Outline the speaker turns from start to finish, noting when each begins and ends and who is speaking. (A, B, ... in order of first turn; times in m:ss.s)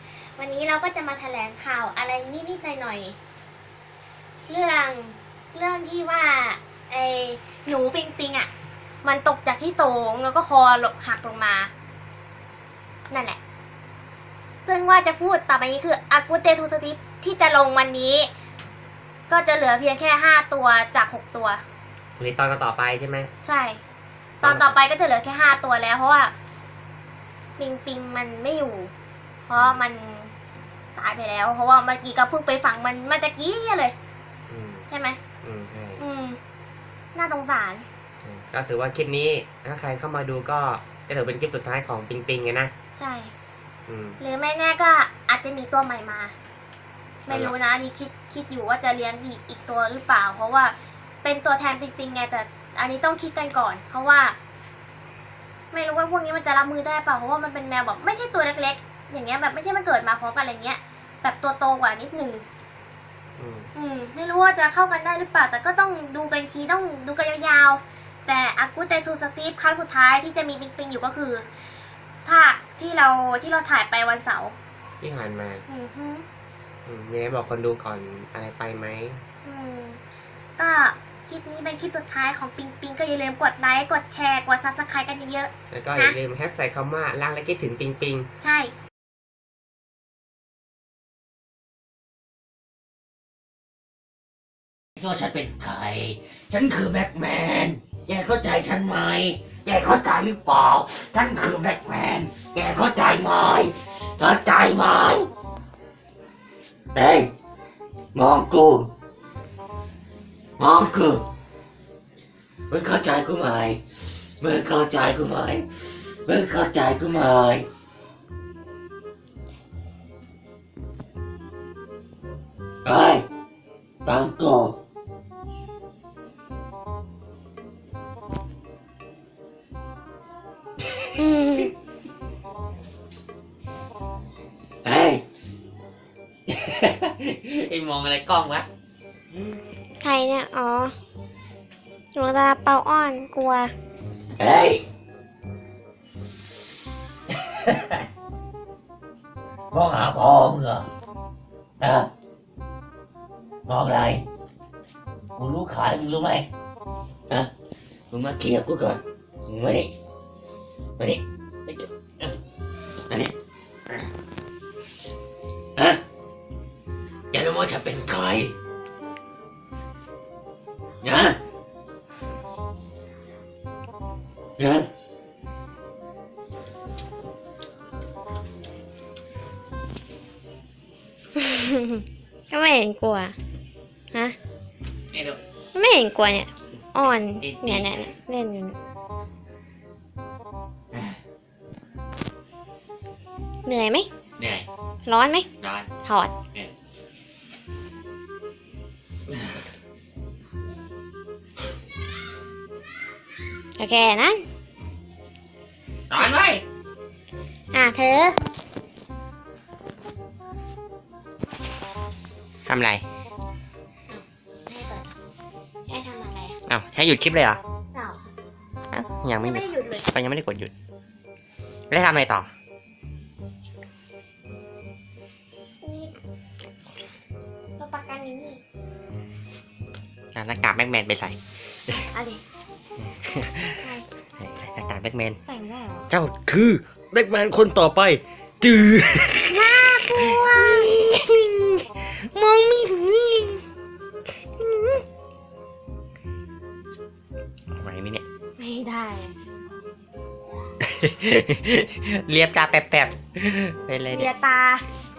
0:00.4-0:03.2 A
0:04.5-0:08.5 A
0:09.0-0:11.7 A
0:13.1-0:13.4 A
0:14.6-0:18.3 A
0:19.3-0:21.6 A
0:22.2-0:23.3 B
0:23.4-0:23.8 A
0:24.4-0:26.3 A
0:24.4-0:24.8 B
0:27.6-0:28.9 A
0:29.5-0:30.3 A
0:31.0-0:34.0 A
0:34.5-0:34.8 B
0:34.9-0:35.2 A
0:35.4-0:36.0 B
0:36.0-0:36.4 A
0:37.2-0:37.9 A
0:38.2-0:42.7 B
0:43.0-0:43.3 A
0:43.9-0:44.2 B
0:44.2-0:46.4 A
0:47.3-0:54.4 A
0:47.3-0:47.6 B
0:55.7-1:02.4 A
1:03.4-1:03.7 B
1:03.8-1:11.5 A
1:12.2-1:14.6 A
1:15.0-1:15.6 B
1:15.7-1:16.2 A
1:16.9-1:19.2 B
1:19.4-1:20.0 A
1:20.6-1:26.2 A
1:25.7-1:28.3 B
1:28.4-1:28.7 A
1:35.0-1:45.3 C
1:47.0-1:47.3 C
1:48.2-1:48.9 C
1:50.6-1:51.3 C
1:52.7-1:53.8 C
1:54.4-1:57.7 C
2:02.8-2:03.3 C
2:04.0-2:04.8 C
2:11.2-2:11.7 A
2:14.8-2:15.2 C
2:16.6-2:18.7 B
2:20.0-2:20.9 A
2:22.2-2:23.7 A
2:24.4-2:24.8 C
2:27.3-2:28.0 C
2:29.7-2:30.9 C
2:31.8-2:32.1 C
2:33.7-2:34.2 C
2:35.4-2:36.5 C
2:38.1-2:39.9 C
2:41.0-2:42.4 C
2:43.1-2:43.3 C
2:45.8-2:46.0 C
2:47.3-2:48.6 C
2:51.0-2:51.4 C
2:54.6-2:54.9 C
3:01.4-3:03.3 A
3:05.7-3:08.8 A
3:07.4-3:08.0 B
3:13.7-3:14.1 A
3:15.0-3:15.5 A
3:15.6-3:15.9 B
3:16.0-3:16.3 A
3:23.8-3:24.4 A
3:26.1-3:26.6 B
3:27.7-3:28.4 A
3:32.7-3:33.0 B
3:34.1-3:35.1 A
3:35.9-3:36.6 A
3:36.7-3:37.6 B
3:37.9-3:38.2 A
3:38.9-3:40.7 B
3:39.4-3:40.1 A
3:41.9-3:42.5 B
3:45.8-3:46.1 A
3:47.8-3:48.6 A
3:50.4-3:51.4 B
3:51.9-3:52.4 A
3:53.0-3:53.8 B
3:53.8-3:54.0 A
3:54.4-3:55.4 B
3:55.5-3:56.1 A
3:56.1-3:59.6 B
3:59.5-4:00.9 A
4:00.2-4:01.8 B
4:02.4-4:03.5 A
4:04.6-4:05.0 A
4:07.7-4:08.2 B
4:08.6-4:09.3 A
4:10.8-4:14.3 B
4:14.1-4:14.8 A